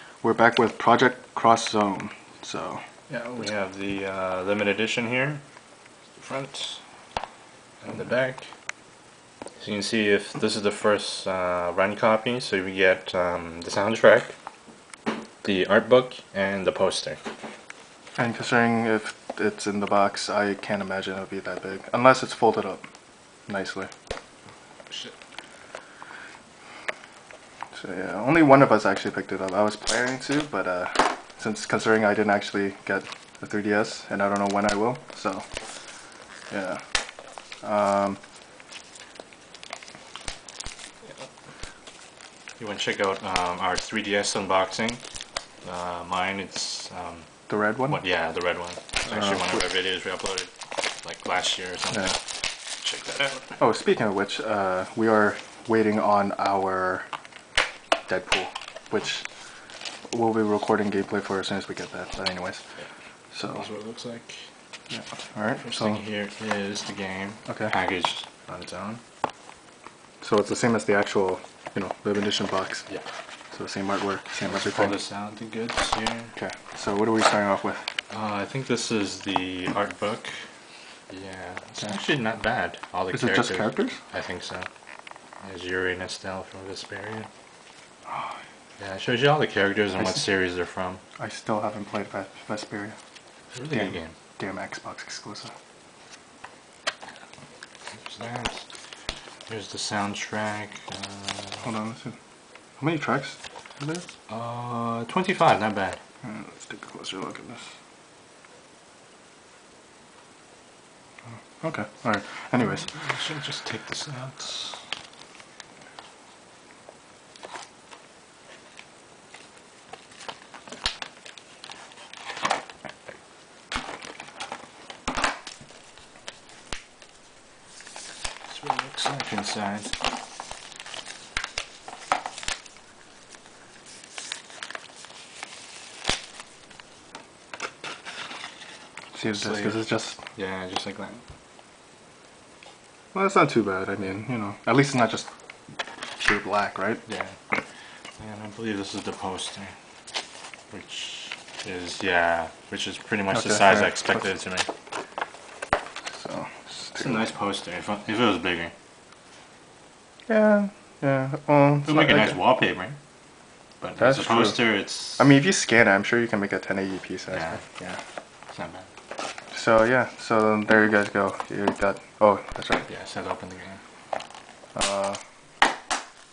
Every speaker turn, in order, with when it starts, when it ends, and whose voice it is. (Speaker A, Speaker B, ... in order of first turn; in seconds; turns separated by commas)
Speaker A: 0.2-2.8, Speaker B: 3.1-5.4, Speaker B: 6.1-6.8, Speaker B: 7.8-8.4, Speaker B: 9.6-14.3, Speaker B: 15.4-17.2, Speaker A: 18.2-22.9, Speaker A: 23.5-23.9, Speaker B: 24.9-25.1, Speaker A: 27.7-35.4, Speaker A: 36.5-36.8, Speaker A: 37.6-38.2, Speaker B: 42.6-45.0, Speaker B: 45.6-47.3, Speaker A: 47.5-48.0, Speaker B: 47.9-50.5, Speaker A: 49.0-49.6, Speaker B: 51.0-52.2, Speaker B: 52.8-53.6, Speaker A: 53.6-57.0, Speaker A: 58.1-59.2, Speaker A: 60.1-62.6, Speaker A: 63.3-63.6, Speaker B: 63.5-64.5, Speaker A: 64.9-66.0, Speaker B: 65.6-69.0, Speaker A: 67.5-67.7, Speaker A: 70.2-72.9, Speaker A: 73.5-75.0, Speaker B: 74.4-76.3, Speaker A: 76.3-77.8, Speaker B: 78.1-80.3, Speaker B: 81.1-84.7, Speaker A: 83.1-84.0, Speaker B: 85.4-87.3, Speaker A: 88.1-88.4, Speaker B: 88.8-91.0, Speaker A: 91.2-93.0, Speaker B: 93.5-94.2, Speaker A: 93.7-95.5, Speaker B: 97.9-98.7, Speaker B: 99.5-101.7, Speaker A: 101.6-102.2, Speaker A: 102.8-104.0, Speaker B: 104.3-106.0, Speaker A: 106.2-107.7, Speaker A: 111.6-112.9, Speaker B: 112.6-114.8, Speaker B: 128.5-129.9, Speaker A: 139.1-140.2, Speaker B: 139.3-141.2, Speaker A: 143.1-145.3, Speaker A: 146.2-147.0, Speaker B: 147.1-147.4, Speaker B: 148.2-149.7, Speaker B: 150.7-154.7, Speaker A: 153.3-154.2, Speaker A: 156.1-157.3, Speaker B: 156.9-158.7, Speaker A: 160.3-162.4, Speaker B: 161.8-163.0, Speaker B: 163.8-165.3, Speaker A: 164.0-164.6, Speaker A: 165.2-168.0, Speaker B: 167.3-167.6, Speaker B: 168.5-168.9, Speaker A: 169.5-172.9, Speaker B: 172.8-173.8, Speaker A: 174.7-175.2